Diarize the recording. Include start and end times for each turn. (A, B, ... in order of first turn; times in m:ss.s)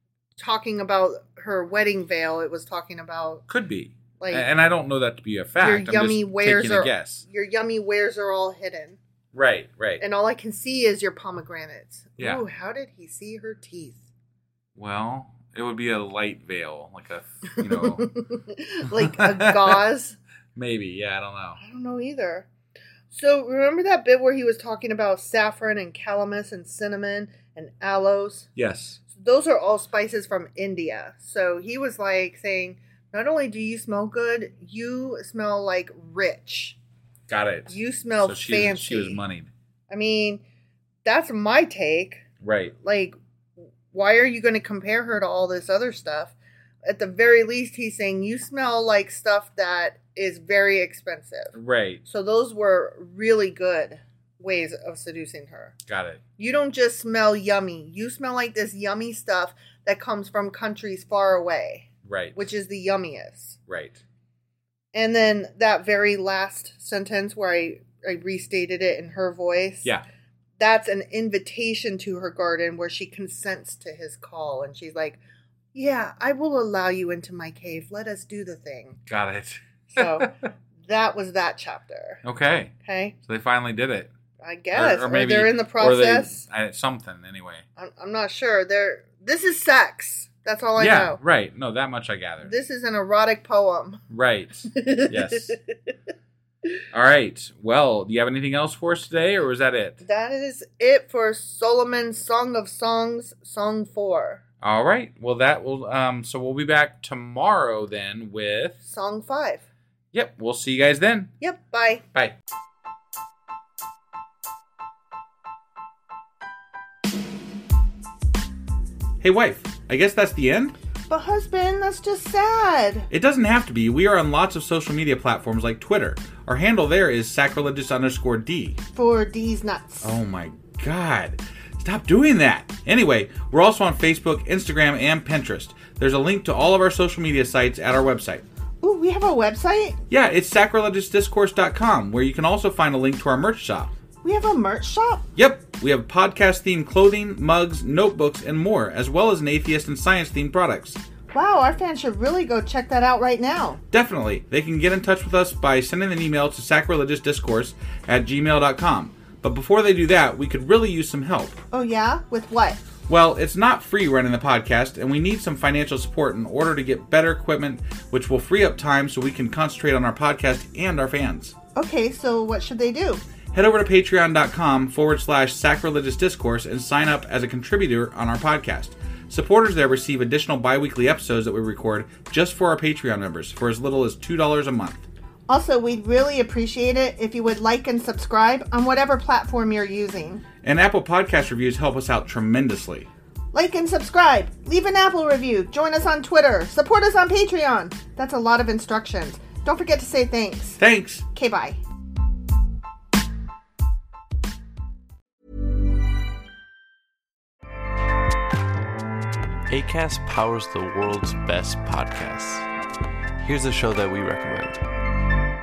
0:00.4-0:03.4 A
0:03.5-0:07.2 B
0:04.2-0:04.5 A
0:05.6-0:09.0 A
0:09.3-0:10.0 B
0:10.0-0:14.1 A
0:12.2-0:12.4 B
0:14.8-0:18.1 B
0:17.6-0:20.2 A
0:18.9-0:19.8 B
0:20.6-0:21.6 B
0:21.6-0:22.5 A
0:23.1-0:28.5 A
0:28.6-0:29.0 B
0:29.1-0:36.8 A
0:37.3-0:39.5 B
0:37.7-0:39.2 A
0:39.9-0:40.4 A
0:41.0-0:42.2 A
0:42.4-0:42.7 B
0:42.8-0:43.2 A
0:43.9-0:46.3 A
0:46.8-0:55.7 A
0:51.5-0:52.0 B
0:55.9-0:56.2 B
0:56.4-1:03.6 A
1:02.0-1:02.4 B
1:03.7-1:04.0 B
1:04.9-1:09.9 A
1:10.6-1:15.2 A
1:15.7-1:19.0 A
1:19.1-1:20.3 B
1:19.9-1:22.2 A
1:22.2-1:22.7 B
1:22.8-1:23.2 A
1:23.2-1:24.1 B
1:24.4-1:26.4 A
1:24.7-1:27.6 B
1:27.8-1:31.2 A
1:30.8-1:32.5 B
1:32.4-1:34.0 A
1:34.1-1:35.6 B
1:34.7-1:35.6 A
1:36.9-1:40.0 B
1:40.0-1:44.4 A
1:44.6-1:48.8 B
1:48.8-1:49.6 A
1:50.1-1:51.3 B
1:51.4-1:52.0 A
1:59.2-2:00.7 B
2:01.1-2:03.1 A
2:03.1-2:08.8 B
2:08.9-2:10.1 A
2:10.0-2:18.4 B
2:18.8-2:20.0 A
2:20.1-2:24.0 B
2:24.2-2:25.2 A
2:25.4-2:31.0 B
2:31.3-2:33.8 A
2:33.9-2:41.6 B
2:41.7-2:42.8 A
2:43.1-2:51.5 B
2:51.8-2:53.2 A
2:53.5-3:05.1 B
3:05.5-3:10.4 A
3:10.6-3:13.1 B
3:13.5-3:20.8 A
3:20.8-3:21.2 B
3:21.3-3:21.8 A
3:29.7-3:32.6 C
3:33.4-3:34.8 C